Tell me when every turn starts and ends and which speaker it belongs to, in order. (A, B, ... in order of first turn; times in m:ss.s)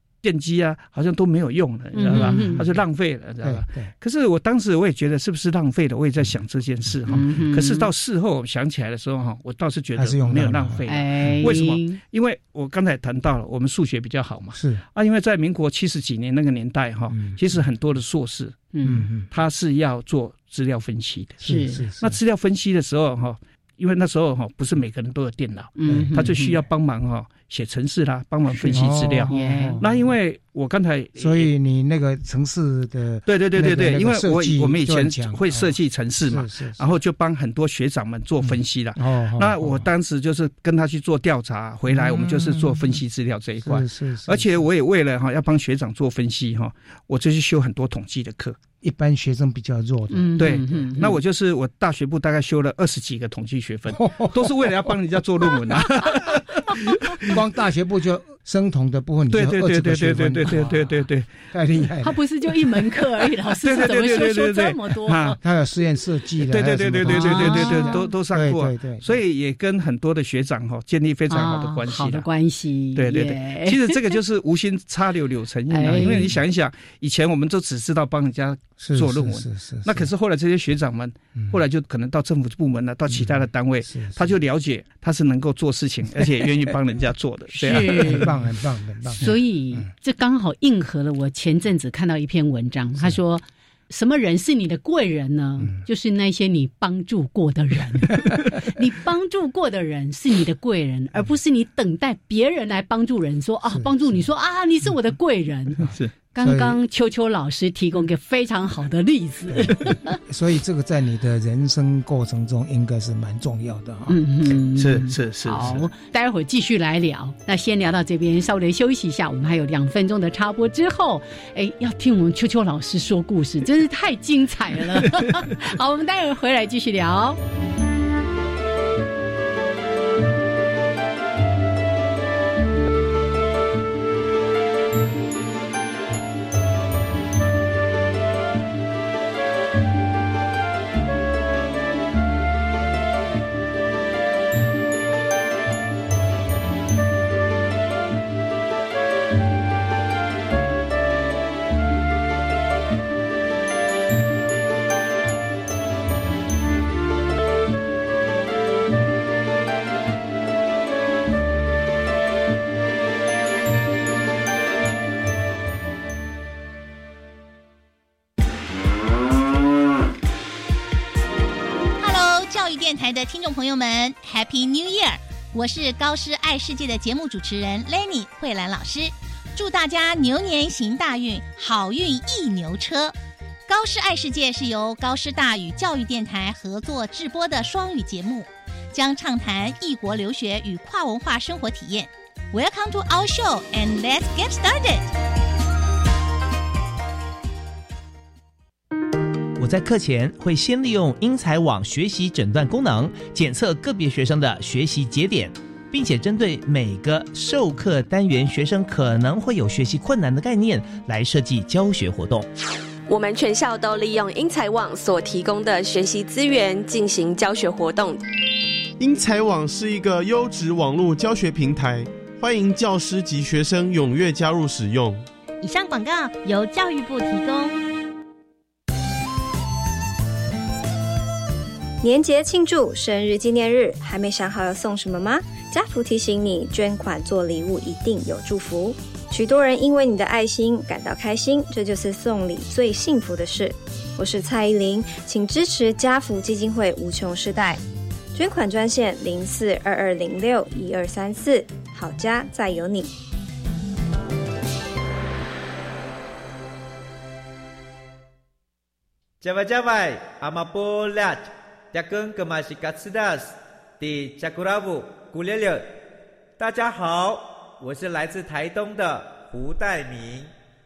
0:00.2-0:18.6 A
0:01.9-0:02.6 B
0:02.1-0:02.8 C
0:03.4-0:03.9 C
0:07.1-0:07.9 B
0:10.0-0:11.5 C
0:10.9-0:12.0 B
0:14.6-0:14.8 C
0:17.1-0:17.4 C
0:18.7-0:19.1 B
0:18.8-0:19.3 C
0:19.3-0:21.4 A
0:21.4-0:22.2 C
0:21.4-0:21.8 B
0:22.0-0:31.5 A
0:25.8-0:26.6 B
0:25.9-0:26.5 C
0:28.5-0:29.8 B
0:28.7-0:30.1 C
0:31.2-0:36.8 C
0:33.3-0:48.6 A
0:38.4-0:39.9 C
0:41.9-0:43.0 C
0:43.6-0:44.6 C
0:48.8-0:50.8 C
0:50.1-0:51.2 B
0:50.4-0:57.4 A
0:53.9-0:54.9 C
0:57.2-1:02.2 C
0:59.3-1:01.3 A
1:02.0-1:05.4 B
1:03.6-1:05.4 A
1:05.4-1:09.2 C
1:06.5-1:12.3 A
1:07.1-1:08.1 B
1:11.3-1:14.2 B
1:13.0-1:28.3 A
1:15.7-1:16.3 B
1:15.9-1:16.4 C
1:18.8-1:20.1 C
1:23.1-1:24.4 C
1:27.5-1:28.3 B
1:27.7-1:29.9 C
1:29.2-1:50.2 B
1:43.7-1:44.3 C
1:45.8-1:46.1 A
1:46.4-1:46.8 C
1:49.5-1:54.2 C
1:54.1-2:07.4 B
1:54.7-1:55.9 A
2:52.0-3:03.2 D
3:03.7-3:15.1 D
3:19.6-3:32.5 E
3:33.1-3:38.2 F
3:39.0-3:45.2 G
3:45.6-3:47.8 H
3:52.0-4:07.8 I
4:08.4-4:13.1 I
4:19.4-4:25.9 J
4:26.6-4:30.5 J